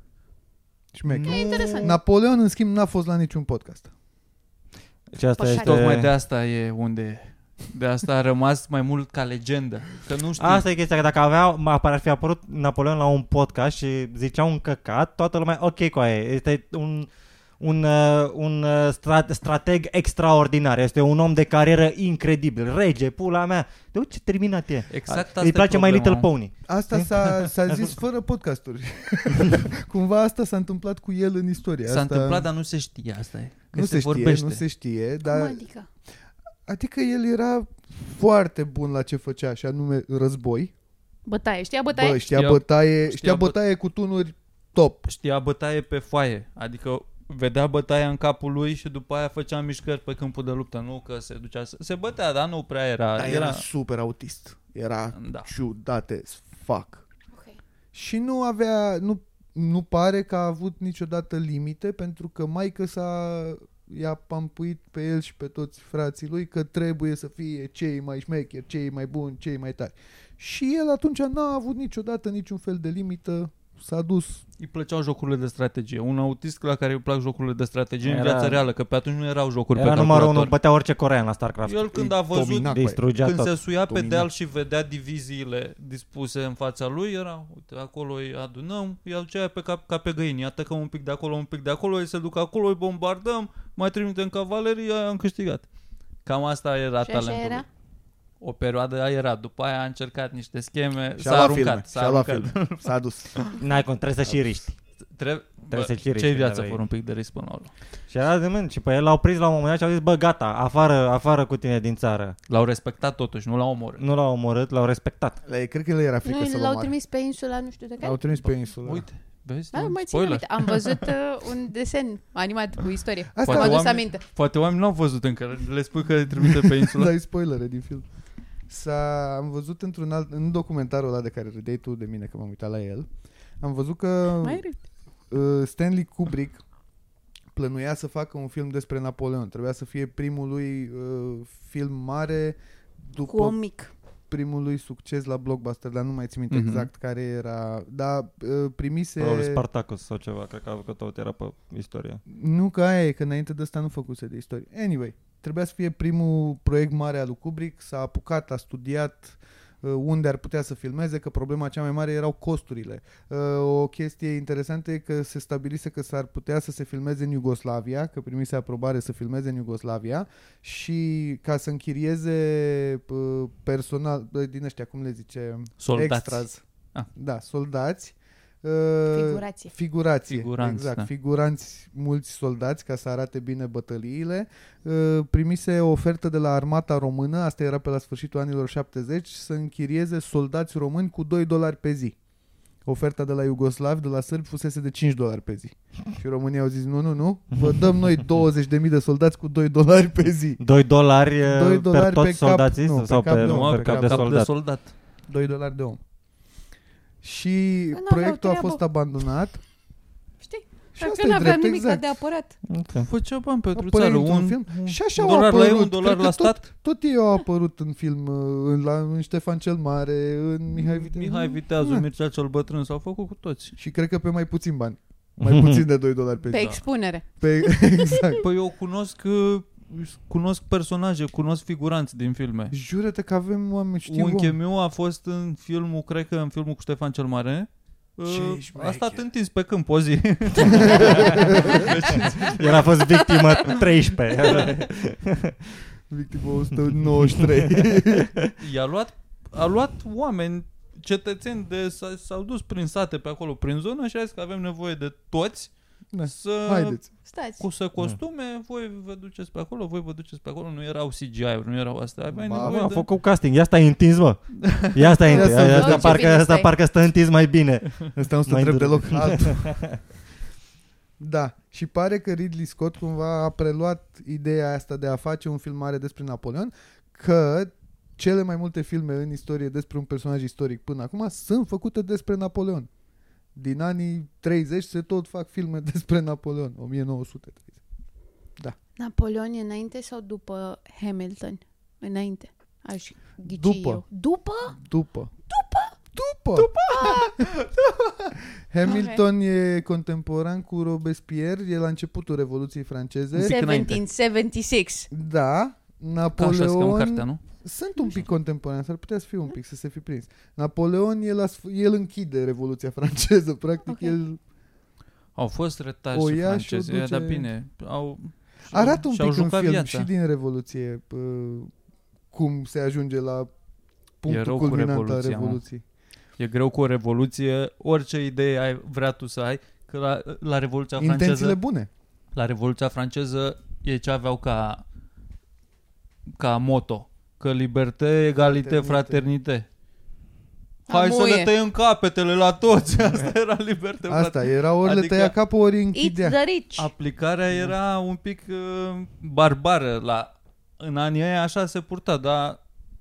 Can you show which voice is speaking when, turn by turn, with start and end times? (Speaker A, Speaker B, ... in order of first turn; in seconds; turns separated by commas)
Speaker A: 0.9-3.9, Speaker B: 1.1-1.9, Speaker C: 1.2-2.0, Speaker D: 5.1-6.1, Speaker C: 5.4-5.9, Speaker B: 5.6-10.6, Speaker D: 10.4-27.9, Speaker B: 24.9-26.3, Speaker A: 26.7-32.5, Speaker B: 31.8-34.6, Speaker A: 33.7-35.6, Speaker C: 35.2-35.9, Speaker A: 36.7-40.7, Speaker C: 41.2-42.2, Speaker A: 41.9-45.0, Speaker B: 42.3-43.6, Speaker B: 45.0-53.6, Speaker A: 53.2-57.0, Speaker B: 55.1-55.5, Speaker C: 57.3-57.6, Speaker A: 57.9-74.4, Speaker B: 74.6-80.5, Speaker D: 78.0-78.6, Speaker D: 79.7-82.0, Speaker B: 81.6-95.7, Speaker A: 81.9-83.0, Speaker D: 82.7-83.5, Speaker A: 83.9-84.3, Speaker B: 96.2-97.7, Speaker C: 97.0-97.7, Speaker B: 98.4-102.9, Speaker A: 101.2-103.3, Speaker D: 103.5-104.8, Speaker B: 105.1-107.7, Speaker D: 105.7-106.8, Speaker D: 108.1-112.3, Speaker B: 112.5-114.0, Speaker D: 114.0-115.4, Speaker A: 115.4-116.9, Speaker C: 116.2-118.2, Speaker A: 118.0-119.0, Speaker B: 118.4-121.1, Speaker C: 119.7-124.2, Speaker A: 123.3-123.9, Speaker B: 123.4-127.1, Speaker A: 126.5-128.0, Speaker A: 128.7-133.1, Speaker A: 133.6-134.6, Speaker C: 134.4-134.8, Speaker A: 135.3-136.6, Speaker A: 137.5-143.6, Speaker C: 143.2-143.9, Speaker A: 144.3-149.6, Speaker B: 146.5-146.9, Speaker D: 149.2-152.2, Speaker A: 152.3-176.6, Speaker B: 175.8-177.1, Speaker A: 177.1-192.2, Speaker C: 179.1-179.7, Speaker B: 180.3-181.1, Speaker A: 192.8-200.6, Speaker D: 200.6-204.5, Speaker A: 201.4-204.3, Speaker B: 203.3-204.9, Speaker A: 205.3-206.0, Speaker A: 207.2-209.6, Speaker C: 207.9-208.8, Speaker C: 210.4-212.5, Speaker A: 210.9-212.0, Speaker D: 212.7-213.1, Speaker B: 213.0-216.7, Speaker A: 213.7-222.1, Speaker B: 220.7-223.7, Speaker A: 223.8-226.8, Speaker D: 225.4-225.8, Speaker C: 226.5-228.2, Speaker B: 226.5-226.8, Speaker A: 227.4-228.4, Speaker B: 228.4-232.7, Speaker A: 232.7-234.6, Speaker B: 234.1-242.9, Speaker A: 238.2-239.2, Speaker A: 240.6-242.3, Speaker D: 240.8-245.8, Speaker C: 243.2-243.7, Speaker A: 246.1-248.3, Speaker D: 247.2-248.5, Speaker B: 248.6-255.7, Speaker A: 256.1-257.1, Speaker B: 256.2-263.1, Speaker C: 257.2-257.6, Speaker A: 262.3-262.9, Speaker D: 262.5-270.0, Speaker B: 264.6-265.4, Speaker A: 265.3-266.2, Speaker C: 265.4-266.7, Speaker A: 268.1-269.8, Speaker A: 271.2-282.9, Speaker A: 283.5-287.8, Speaker C: 289.0-294.8, Speaker A: 293.4-294.0, Speaker A: 294.7-295.3, Speaker C: 295.5-295.9, Speaker A: 296.1-303.5, Speaker B: 296.6-296.9, Speaker C: 296.9-297.4, Speaker C: 298.8-299.2, Speaker B: 303.3-304.0, Speaker C: 303.4-305.1, Speaker A: 305.1-314.4, Speaker B: 306.4-307.4, Speaker C: 313.9-314.2, Speaker B: 315.4-320.1, Speaker A: 316.1-317.5, Speaker A: 318.7-321.7, Speaker A: 322.3-323.5, Speaker A: 324.2-325.8, Speaker B: 324.3-325.6, Speaker B: 326.4-331.6, Speaker A: 331.0-331.9, Speaker B: 332.3-334.8, Speaker B: 336.4-339.6, Speaker A: 338.4-339.2, Speaker C: 340.9-341.5, Speaker B: 340.9-345.3, Speaker A: 344.1-346.4, Speaker C: 345.9-346.9, Speaker B: 346.8-352.6